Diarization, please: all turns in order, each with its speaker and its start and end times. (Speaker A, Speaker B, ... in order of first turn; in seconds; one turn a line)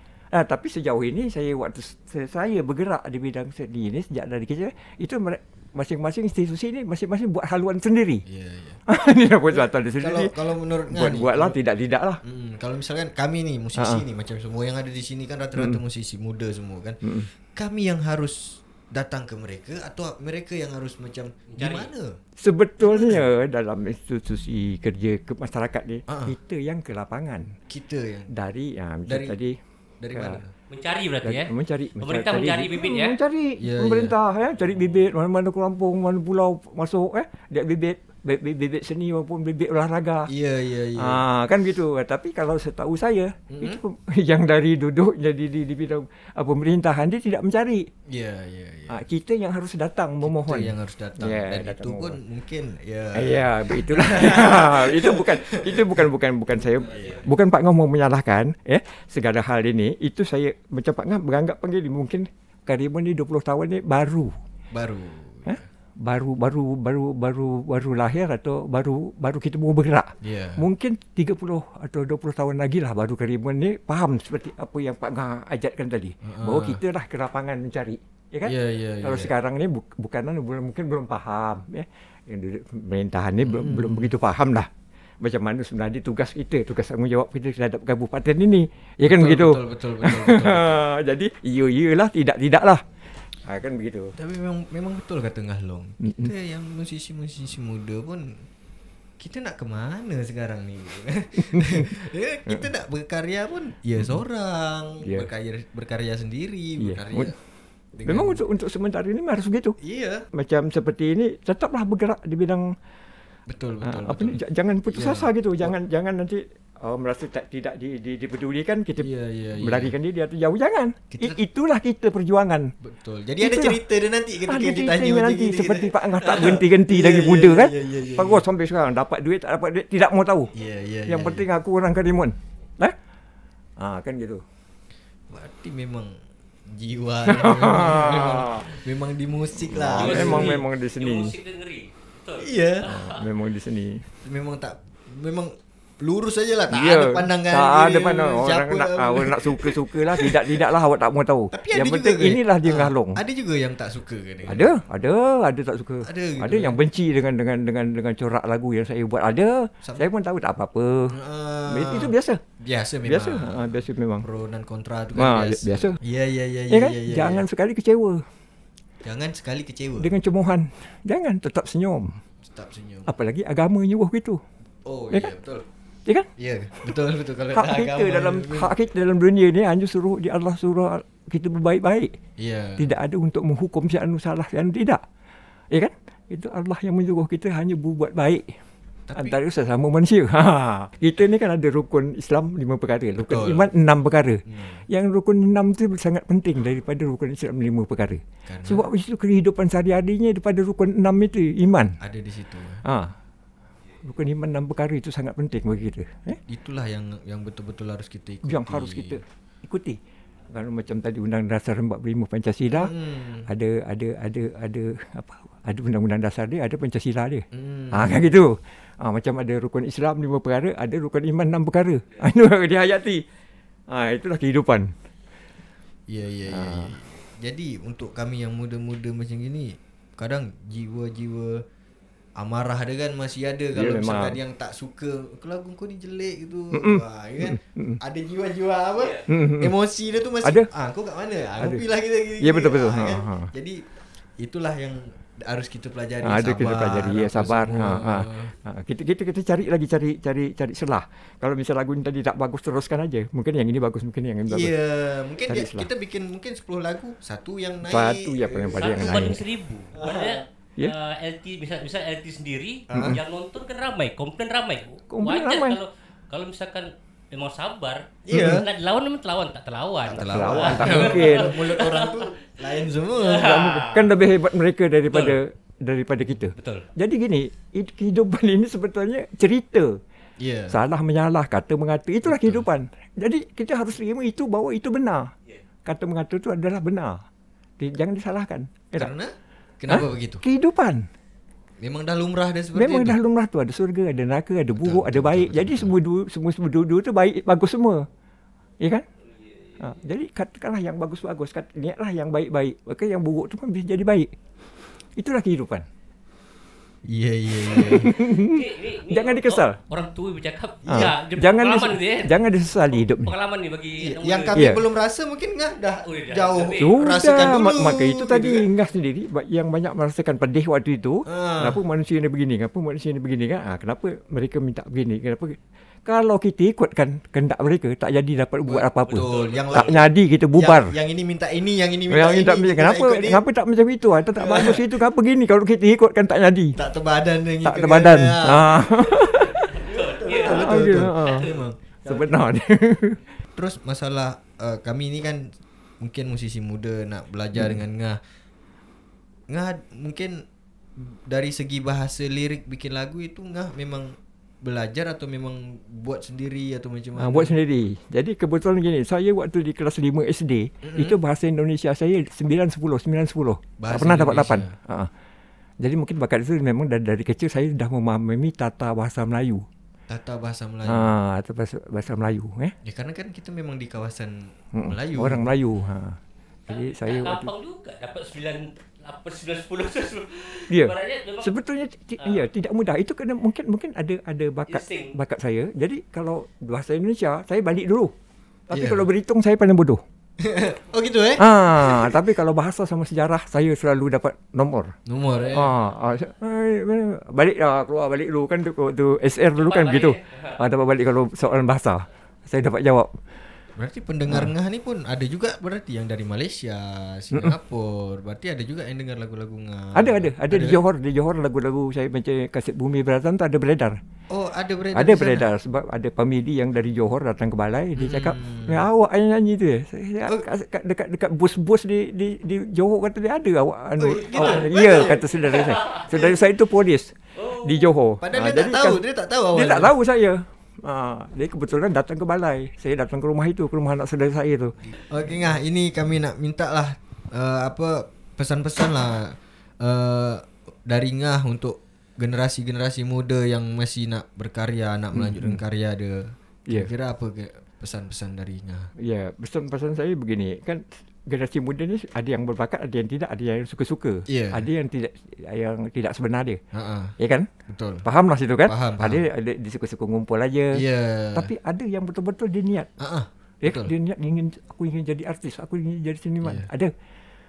Speaker A: 0.3-8.2
Speaker B: 8.3-8.8
Speaker A: 8.9-12.2
Speaker B: 9.5-11.6
Speaker B: 12.2-22.2
Speaker A: 13.8-14.0
Speaker A: 17.0-17.3
Speaker C: 21.6-21.9
Speaker A: 22.4-27.5
Speaker B: 22.8-23.2
Speaker B: 26.1-26.4
Speaker B: 27.7-28.3
Speaker A: 28.3-29.6
Speaker B: 29.1-29.4
Speaker B: 30.0-30.5
Speaker A: 30.1-30.4
Speaker C: 30.7-33.2
Speaker A: 31.2-40.3
Speaker B: 33.6-34.1
Speaker B: 40.3-41.2
Speaker A: 41.0-47.9
Speaker B: 43.5-43.8
Speaker B: 48.1-49.0
Speaker A: 48.9-52.2
Speaker B: 50.2-56.1
Speaker A: 53.1-64.3
Speaker B: 56.8-57.2
Speaker B: 64.7-65.7
Speaker A: 65.5-84.7
Speaker B: 70.2-70.6
Speaker B: 76.2-76.8
Speaker B: 78.5-79.3
Speaker B: 83.4-84.1
Speaker A: 85.2-92.8
Speaker B: 89.0-90.8
Speaker A: 93.5-94.2
Speaker B: 94.2-98.5
Speaker A: 96.0-96.3
Speaker B: 99.2-107.3
Speaker A: 101.4-101.9
Speaker A: 106.8-107.3
Speaker B: 108.0-108.4
Speaker A: 108.1-109.8
Speaker B: 109.8-110.3
Speaker A: 110.3-112.7
Speaker B: 113.5-115.7
Speaker A: 113.8-119.1
Speaker B: 119.0-119.9
Speaker A: 119.6-122.7
Speaker B: 121.1-121.4
Speaker B: 122.8-128.4
Speaker A: 123.4-123.8
Speaker A: 124.5-130.5
Speaker B: 130.6-131.4
Speaker A: 131.1-132.9
Speaker A: 133.8-134.4
Speaker B: 135.3-136.1
Speaker B: 136.7-140.6
Speaker A: 137.3-138.7
Speaker A: 139.7-141.3
Speaker C: 139.9-143.2
Speaker B: 142.4-142.9
Speaker A: 142.8-144.1
Speaker B: 144.2-150.6
Speaker A: 146.7-153.2
Speaker B: 151.5-154.8
Speaker A: 154.5-161.1
Speaker B: 156.0-156.8
Speaker B: 161.1-167.5
Speaker A: 161.7-162.4
Speaker A: 163.1-164.2
Speaker A: 165.2-166.0
Speaker A: 166.7-168.2
Speaker B: 169.0-170.1
Speaker A: 170.0-172.2
Speaker B: 172.5-173.1
Speaker A: 173.1-174.4
Speaker B: 174.8-175.7
Speaker B: 176.4-178.7
Speaker A: 177.5-182.2
Speaker B: 182.4-182.8
Speaker A: 182.8-185.0
Speaker A: 185.7-188.6
Speaker B: 189.1-189.4
Speaker A: 189.2-202.0
Speaker B: 193.2-193.7
Speaker B: 194.5-194.8
Speaker B: 198.4-198.9
Speaker B: 202.0-202.8
Speaker A: 202.8-203.2
Speaker A: 204.0-206.4
Speaker B: 206.5-209.2
Speaker A: 208.4-210.0
Speaker A: 210.5-212.9
Speaker B: 212.7-213.5
Speaker A: 213.5-223.2
Speaker B: 217.5-218.2
Speaker A: 223.9-224.9
Speaker B: 226.1-231.6
Speaker A: 226.5-226.9
Speaker B: 232.4-243.8
Speaker A: 233.7-234.4
Speaker A: 236.7-238.0
Speaker A: 239.3-239.7
Speaker A: 242.4-243.5
Speaker B: 244.4-248.5
Speaker A: 246.2-254.8
Speaker B: 254.5-259.4
Speaker A: 255.5-255.9
Speaker A: 257.9-259.4
Speaker C: 258.8-272.2
Speaker B: 259.9-260.4
Speaker B: 262.9-263.2
Speaker A: 262.9-263.2
Speaker A: 265.1-265.8
Speaker B: 268.3-268.7
Speaker A: 268.3-268.6
Speaker B: 270.1-273.8
Speaker A: 270.2-271.5
Speaker C: 273.2-274.0
Speaker A: 273.4-280.0
Speaker B: 276.5-276.9
Speaker B: 280.4-280.8
Speaker A: 280.7-285.3
Speaker B: 282.2-282.7
Speaker A: 285.9-287.2
Speaker A: 287.8-289.1
Speaker B: 289.0-290.4
Speaker A: 289.9-291.1
Speaker B: 291.8-293.2
Speaker A: 292.8-298.1
Speaker B: 294.8-295.9
Speaker A: 298.8-299.1
Speaker A: 299.8-304.3
Speaker A: 305.2-305.9
Speaker B: 307.1-308.1
Speaker A: 307.6-309.8
Speaker C: 308.1-312.4
Speaker A: 310.9-313.3
Speaker C: 312.9-314.7
Speaker B: 314.0-318.7
Speaker A: 314.6-314.8
Speaker C: 316.1-316.9
Speaker A: 316.8-330.9
Speaker B: 321.3-321.8
Speaker B: 328.7-333.4
Speaker C: 329.2-329.9
Speaker A: 332.1-336.8
Speaker B: 334.4-334.9
Speaker B: 336.8-342.4
Speaker A: 337.6-339.8
Speaker C: 339.5-341.6
Speaker A: 340.4-341.5
Speaker A: 342.1-343.2
Speaker B: 343.6-348.2
Speaker B: 349.5-350.4
Speaker B: 351.0-357.6
Speaker A: 357.2-365.1
Speaker B: 360.8-361.2
Speaker B: 363.8-364.7
Speaker A: 365.8-369.7
Speaker B: 370.1-371.1
Speaker A: 370.9-372.7
Speaker B: 372.8-375.5
Speaker A: 374.7-377.5
Speaker C: 376.7-381.5
Speaker A: 380.7-388.1
Speaker C: 384.7-385.1
Speaker A: 388.7-390.0
Speaker B: 388.7-389.1
Speaker B: 390.4-392.2
Speaker A: 391.4-394.9
Speaker B: 395.1-395.7
Speaker A: 395.5-403.2
Speaker C: 399.6-400.6
Speaker B: 403.8-410.8
Speaker A: 409.9-414.0
Speaker B: 414.3-415.5
Speaker A: 414.9-429.0
Speaker B: 418.0-418.9
Speaker B: 424.0-426.4
Speaker C: 424.4-425.1
Speaker B: 428.2-429.9
Speaker A: 429.6-434.8
Speaker B: 434.9-448.9
Speaker A: 445.1-445.6
Speaker A: 449.0-456.6
Speaker B: 454.3-454.6
Speaker B: 456.7-457.1
Speaker A: 457.2-457.5
Speaker B: 457.7-458.1
Speaker A: 458.0-460.8
Speaker B: 458.7-459.2
Speaker B: 460.8-461.5
Speaker A: 461.4-462.9
Speaker B: 463.0-463.9
Speaker A: 463.6-466.9
Speaker B: 466.4-466.7